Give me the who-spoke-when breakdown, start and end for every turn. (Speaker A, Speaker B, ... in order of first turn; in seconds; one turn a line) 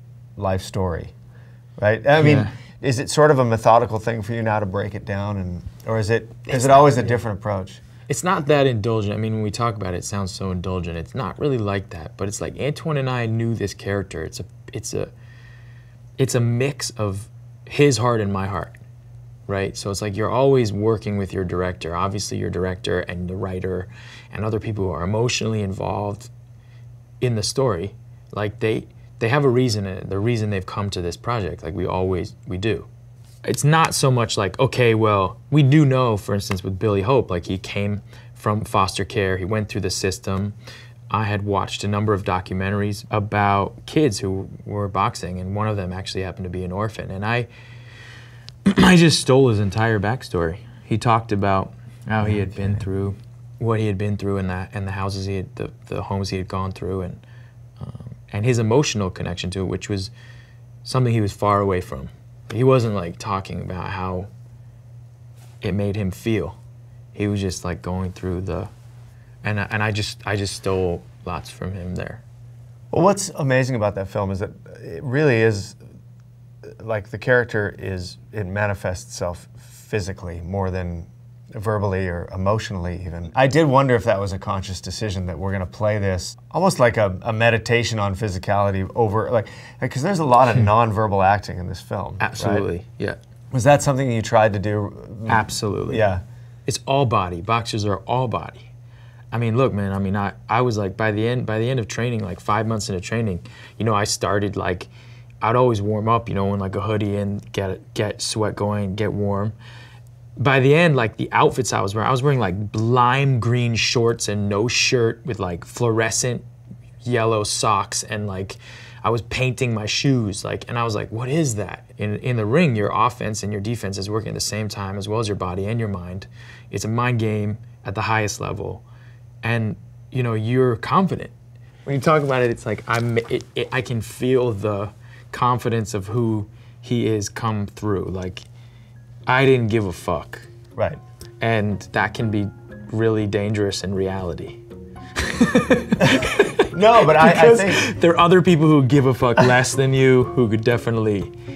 Speaker A: 0.4-1.1
Speaker A: 1.8-7.8
Speaker B: 2.2-2.5
Speaker B: 6.5-7.2
Speaker B: 8.1-15.1
Speaker B: 16.2-18.8
Speaker B: 19.5-26.3
Speaker B: 27.2-32.9
Speaker B: 33.5-40.6
Speaker B: 41.1-47.5
Speaker B: 48.6-57.2
Speaker A: 52.3-52.8
Speaker B: 57.8-60.1
Speaker B: 60.9-64.3
Speaker B: 65.6-66.6
Speaker B: 67.1-68.7
Speaker B: 69.4-72.2
Speaker A: 72.9-75.8
Speaker A: 76.8-92.7
Speaker B: 92.2-93.2
Speaker A: 93.5-96.2
Speaker B: 95.3-96.1
Speaker B: 96.7-98.7
Speaker B: 99.3-104.9
Speaker B: 105.4-109.6
Speaker B: 110.4-116.5
Speaker B: 117.0-128.8
Speaker B: 129.4-131.3
Speaker B: 131.8-138.4
Speaker B: 139.3-140.5
Speaker B: 141.4-144.6
Speaker B: 145.2-151.3
Speaker A: 146.7-147.8